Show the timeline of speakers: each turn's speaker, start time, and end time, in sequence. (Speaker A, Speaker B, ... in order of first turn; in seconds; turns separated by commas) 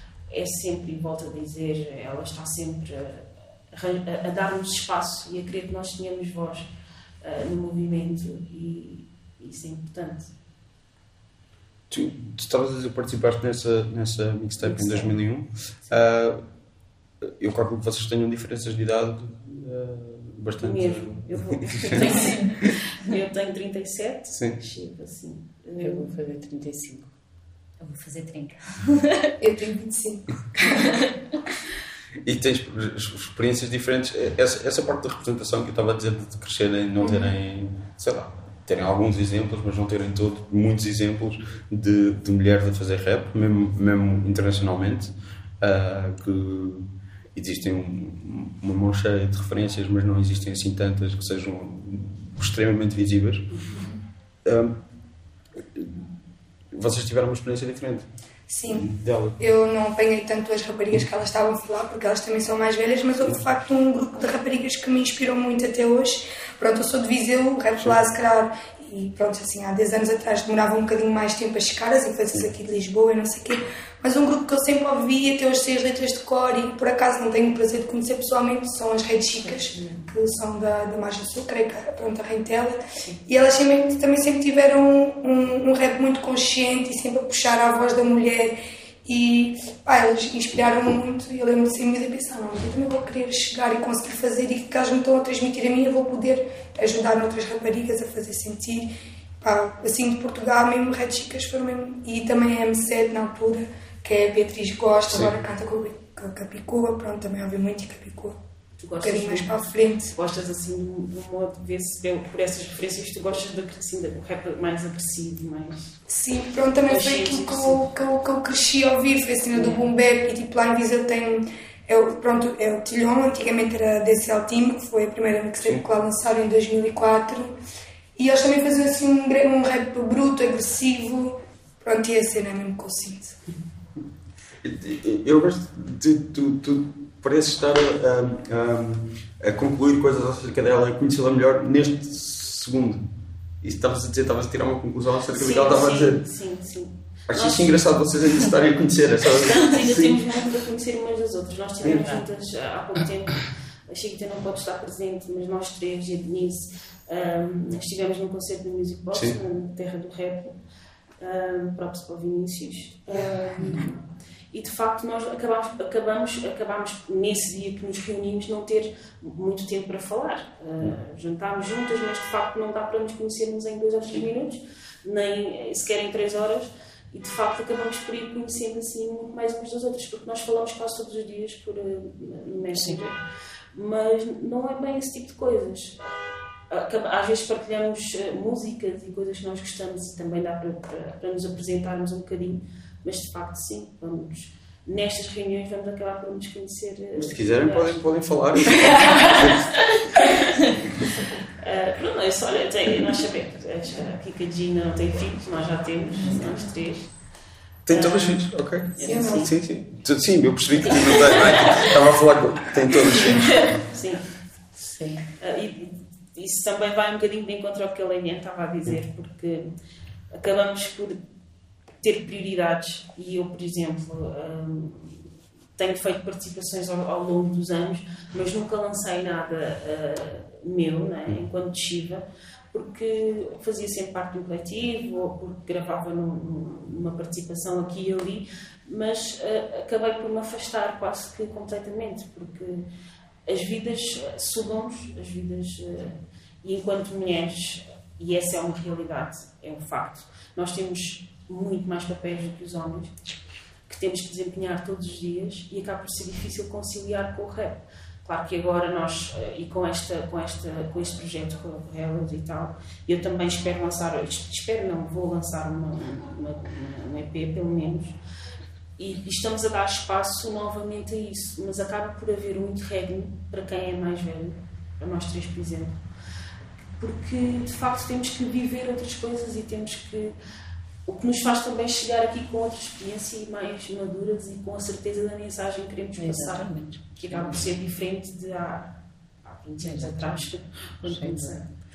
Speaker A: 0.3-6.7, Speaker A: 7.2-10.3, Speaker B: 11.9-16.4, Speaker A: 14.6-15.2, Speaker B: 17.2-22.7, Speaker A: 20.6-26.1, Speaker B: 24.3-24.6, Speaker C: 25.8-27.1, Speaker D: 27.8-29.3, Speaker E: 29.4-30.4, Speaker D: 30.6-31.1, Speaker B: 32.2-53.5, Speaker B: 54.4-54.8, Speaker B: 55.6-56.0, Speaker B: 56.7-58.1, Speaker E: 58.5-108.3, Speaker B: 58.7-59.4, Speaker A: 79.4-80.1, Speaker A: 83.0-83.2, Speaker B: 105.1-105.3, Speaker A: 108.8-116.0, Speaker E: 109.0-110.1, Speaker E: 116.1-127.5, Speaker A: 116.8-117.9, Speaker A: 119.5-119.9, Speaker E: 128.2-133.4, Speaker B: 134.6-143.1, Speaker B: 143.6-146.2, Speaker A: 145.3-147.9, Speaker B: 147.3-150.2, Speaker A: 149.2-160.5, Speaker C: 151.8-152.2, Speaker B: 159.1-159.4, Speaker A: 161.2-183.2, Speaker C: 182.7-183.0, Speaker A: 183.7-186.1, Speaker A: 186.7-198.0, Speaker B: 197.2-199.8, Speaker A: 199.2-200.5, Speaker A: 201.6-207.1, Speaker B: 207.8-213.8, Speaker A: 207.9-209.5, Speaker E: 209.0-209.5, Speaker A: 210.8-212.0, Speaker A: 212.9-214.3, Speaker C: 214.8-215.3, Speaker A: 215.4-219.7, Speaker A: 220.3-221.2, Speaker A: 222.0-242.9, Speaker A: 243.4-253.2, Speaker A: 253.9-268.1, Speaker A: 269.0-276.0, Speaker A: 277.0-280.3, Speaker A: 281.1-291.7, Speaker C: 286.2-287.7, Speaker C: 289.8-290.4, Speaker C: 291.0-291.6